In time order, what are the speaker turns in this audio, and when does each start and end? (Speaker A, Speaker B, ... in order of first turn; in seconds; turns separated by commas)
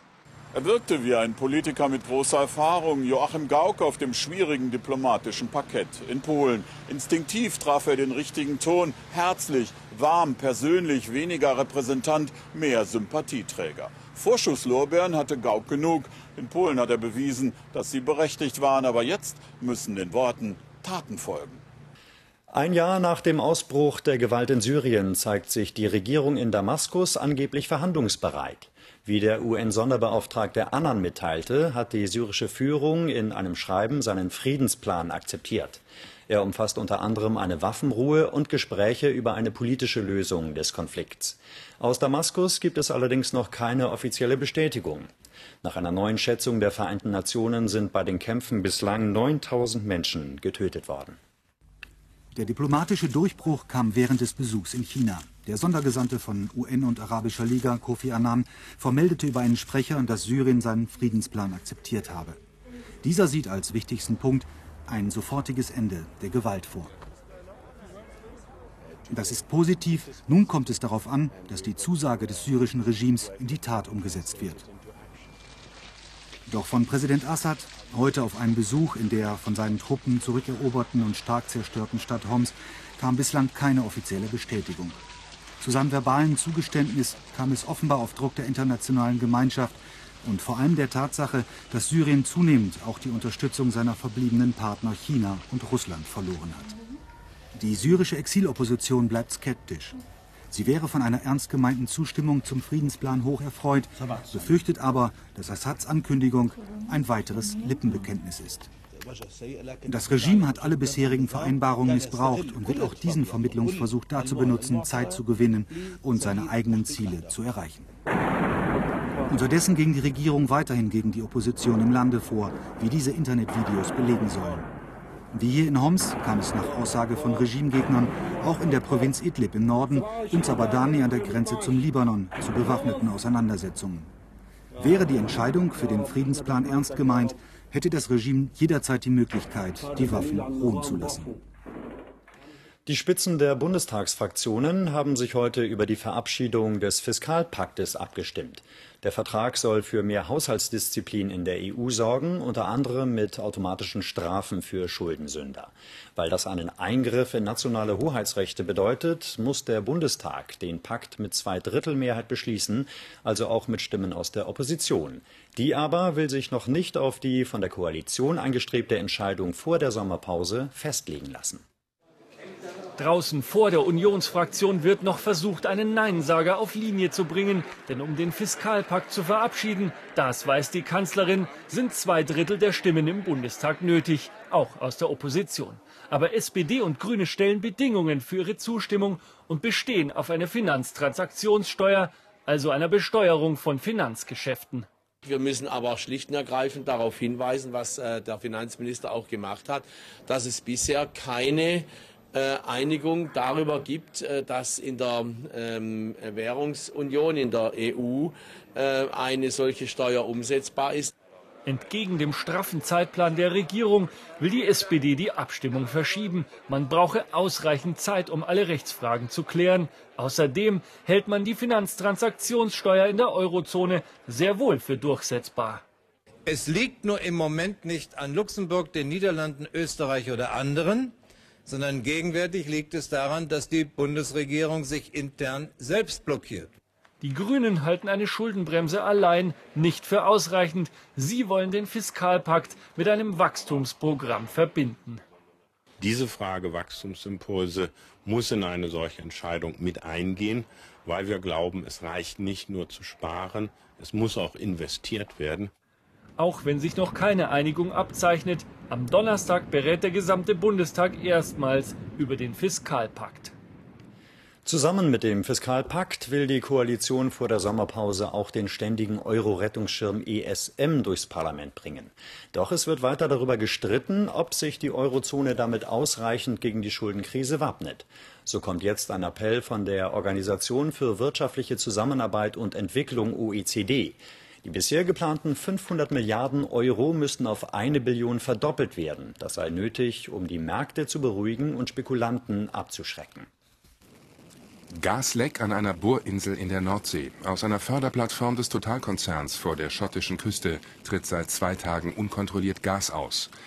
Speaker A: 0.5-21.6, Speaker B: 22.5-45.1, Speaker B: 45.6-51.2, Speaker C: 52.4-62.4, Speaker C: 63.0-67.0, Speaker C: 69.1-74.6, Speaker C: 76.5-85.0, Speaker C: 85.6-96.8, Speaker C: 97.5-100.0, Speaker C: 100.5-108.7, Speaker C: 109.9-117.9, Speaker C: 119.3-124.7, Speaker C: 125.3-134.1, Speaker C: 134.8-141.4, Speaker B: 142.9-171.6, Speaker D: 173.0-194.9, Speaker E: 195.2-211.1, Speaker D: 211.7-225.8, Speaker F: 226.5-231.1, Speaker F: 231.7-236.7, Speaker D: 237.2-245.2, Speaker G: 246.0-255.7, Speaker D: 256.4-263.5, Speaker B: 264.6-293.5, Speaker H: 294.9-303.5